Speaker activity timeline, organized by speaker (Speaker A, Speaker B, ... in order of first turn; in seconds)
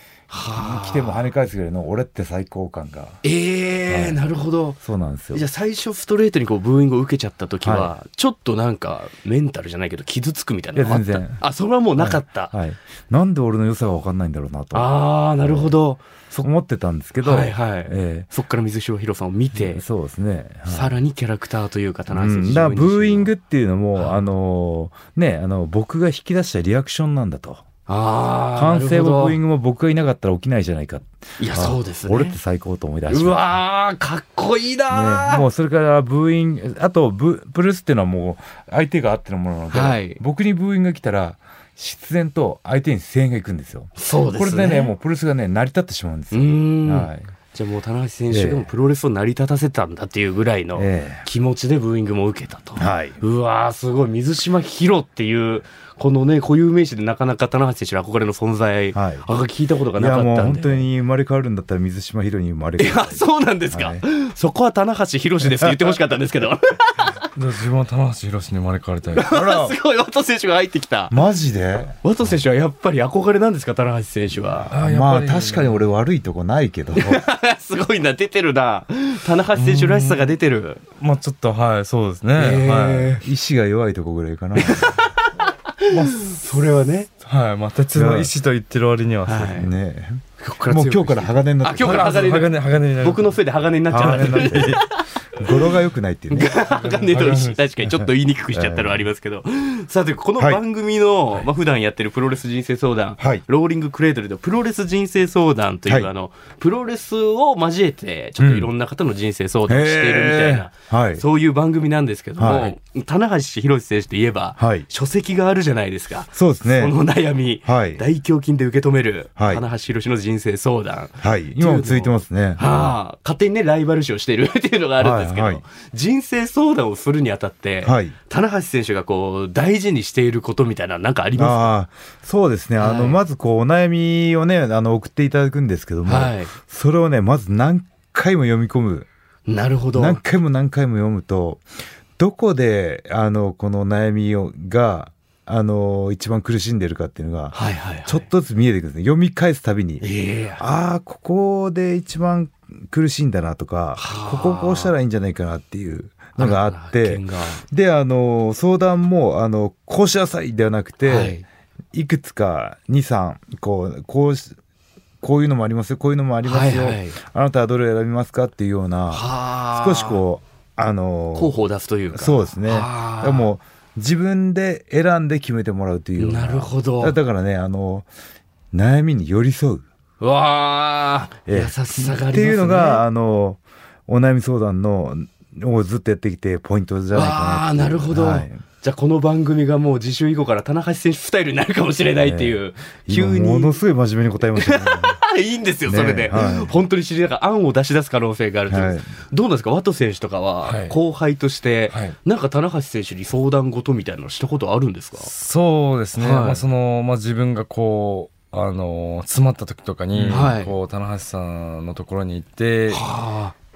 Speaker A: 0.3-1.2, 3.2-4.8, 5.3-12.5, 14.7-16.5, 17.2-19.8, 20.7-23.3, 24.0-24.2, 27.9-29.4, 31.4-32.4, 33.1-35.5, 39.7-40.2, 44.0-44.9, 46.3-60.9, 62.8-67.2, 69.2-71.2, 72.0-74.7, 77.0-80.8, 82.4-83.2, 84.6-87.1, 89.3-89.7, 90.4-95.7, 96.3-131.7, 132.8-133.2, 136.1-136.5, 139.5-140.2, 147.5-148.3, 150.0-150.6, 154.0-154.9, 156.4-157.6, 161.1-161.4, 166.4-167.2, 169.1-170.2, 171.4-173.5, 176.2-177.2, 180.2-183.0, 187.1-193.8, 194.6-205.3, 206.2-206.6, 210.3-210.7, 212.9-213.5
Speaker B: 0.5-3.2, 3.9-4.2, 4.8-5.4, 7.6-7.9, 10.8-11.4, 12.0-15.8, 16.4-18.3, 19.6-20.9, 22.1-27.6, 28.6-33.5, 34.9-47.3, 48.3-48.7, 50.8-51.3, 52.8-53.2, 58.9-59.2, 60.0-64.0, 65.5-65.9, 69.3-69.8, 71.1-72.0, 74.6-77.2, 83.2-85.0, 87.9-88.3, 89.5-92.3, 93.9-96.8, 97.8-99.0, 108.4-108.7, 109.7-111.2, 112.4-112.8, 114.6-114.9, 116.3-116.9, 117.7-118.0, 119.4-119.6, 121.2-122.9, 125.0-125.6, 127.8-128.1, 131.4-139.1, 139.9-141.6, 142.2-147.6, 148.1-150.1, 150.6-161.4, 161.9-164.6, 165.2-171.6, 172.1-178.1, 178.7-179.8, 181.5-188.6, 192.2-195.2, 195.9-196.7, 198.7-199.1
Speaker C: 67.3-69.3, 74.7-75.8, 79.6-80.3, 81.0-83.2, 87.2-89.7, 91.7-93.4, 93.9-94.8, 96.9-97.6, 200.7-200.9, 201.9-202.2, 205.2-213.1